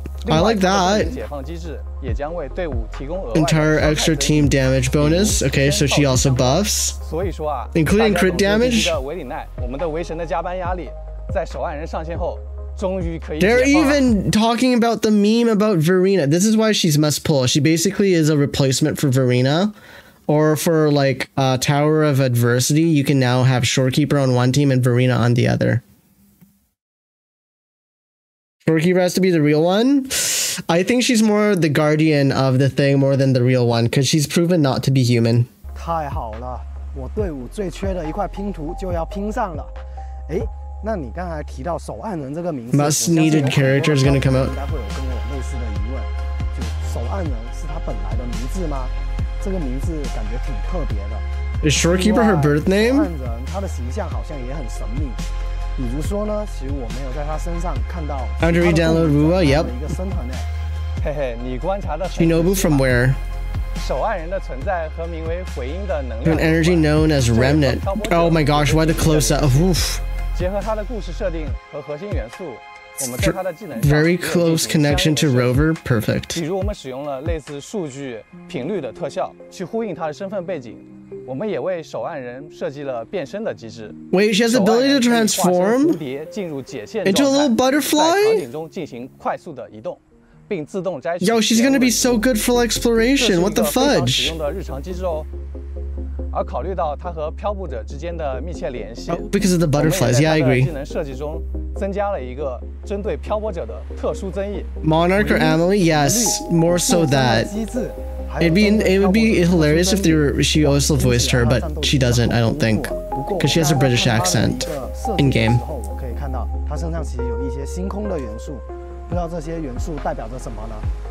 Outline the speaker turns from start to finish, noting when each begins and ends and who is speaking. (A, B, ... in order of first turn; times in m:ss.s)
0:00.2-0:14.1 A
0:00.3-0:01.2 B
0:03.3-0:07.0 B
0:07.7-0:09.0 B
0:13.4-0:19.8 B
0:20.3-0:25.8 B
0:28.6-0:35.5 B
0:35.8-0:39.7 C
0:40.3-0:51.2 C
0:42.7-0:44.6 B
0:51.6-0:53.1 B
0:51.9-0:55.2 C
0:55.8-1:00.5 C
0:58.4-0:59.9 B
1:01.0-1:02.9 A
1:02.1-1:03.2 B
1:03.8-1:09.7 A
1:06.2-1:10.0 B
1:10.3-1:15.6 A
1:13.0-1:16.4 B
1:16.3-1:32.3 A
1:24.1-1:26.0 B
1:27.0-1:28.5 B
1:31.2-1:34.4 B
1:33.2-1:35.3 A
1:36.3-1:44.7 A
1:39.1-1:40.7 B
1:44.8-1:47.5 B
1:45.2-2:00.9 C
1:48.4-1:55.6 B